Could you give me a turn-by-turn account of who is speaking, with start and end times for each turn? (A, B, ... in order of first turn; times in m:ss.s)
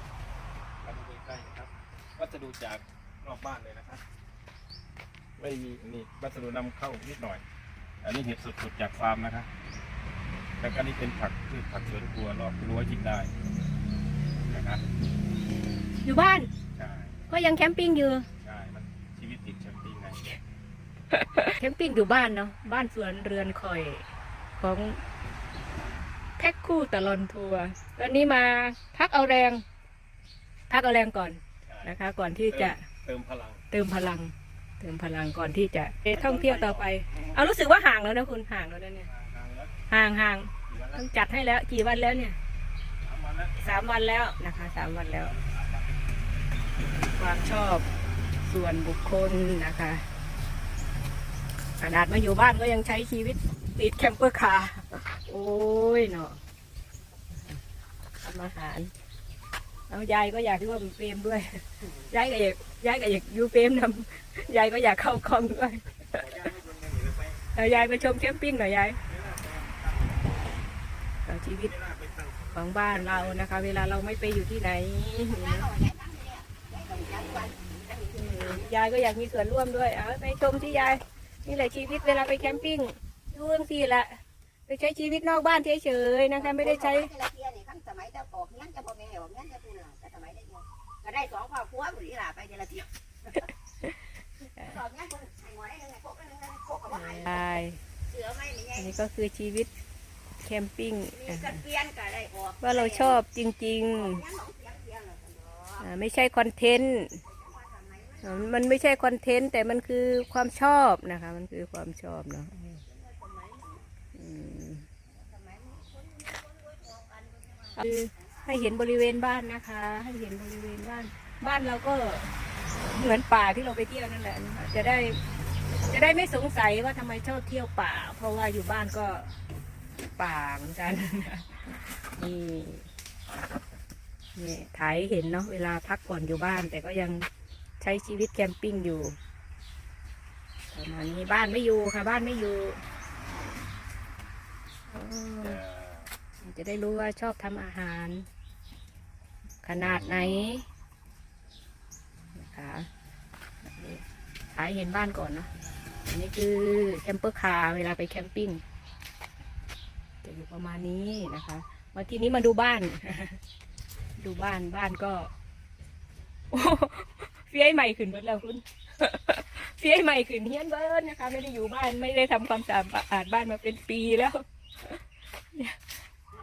0:00.8-0:04.0 A
0:05.4-0:07.4 A
0:08.0-0:09.5 A
0:10.6-0:13.4 A
0:14.4-0:14.8 A
0:16.0-0:16.5 B
0:16.8-0:17.2 A
0:17.3-0:18.3 B
0:18.4-0:20.3 A
0:21.1-0:24.0 B
0:24.6-0:25.0 B
0:26.4-0:29.6 B
0:30.7-0:32.8 B
0:31.7-0:33.6 A
0:33.7-0:39.1 B
0:36.1-0:36.8 A
0:39.1-0:39.7 A
0:39.9-0:42.4 B
0:40.7-0:41.1 A
0:43.0-0:43.9 A
0:43.6-0:45.3 B
0:45.0-0:45.9 A
0:47.1-0:47.9 B
0:48.4-0:50.0 B
0:51.8-0:56.4 B
0:58.2-0:58.9 B
0:59.9-1:06.5 B
1:06.1-1:07.9 A
1:07.6-1:09.0 B
1:09.1-1:10.4 A
1:11.3-1:11.7 B
1:11.7-1:13.9 A
1:12.5-1:15.7 B
1:15.3-1:18.7 C
1:18.2-1:27.1 B
1:21.9-1:22.6 C
1:26.4-1:33.5 C
1:34.6-1:37.5 C
1:36.9-1:37.8 B
1:38.1-1:38.9 C
1:38.8-1:39.7 B
1:40.4-1:41.6 B
1:41.1-1:43.2 C
1:42.6-1:44.2 B
1:43.9-1:45.8 C
1:45.8-1:47.2 B
1:47.3-1:48.5 C
1:48.2-1:52.8 B
1:52.9-1:53.9 C
1:54.1-1:54.9 B
1:55.1-1:57.8 C
1:57.8-2:02.3 B
2:02.9-2:05.2 B
2:05.9-2:09.3 B
2:10.2-2:11.6 B
2:12.2-2:12.9 B
2:14.4-2:17.3 B
2:17.8-2:19.2 B
2:20.7-2:22.8 B
2:24.9-2:25.6 B
2:25.4-2:26.1 A
2:26.4-2:28.3 B
2:29.6-2:30.6 B
2:29.8-2:30.3 A
2:32.4-2:32.9 B
2:33.6-2:35.5 B
2:36.1-2:38.6 B
2:40.2-2:43.4 B
2:44.2-2:45.3 B
2:46.5-2:55.0 B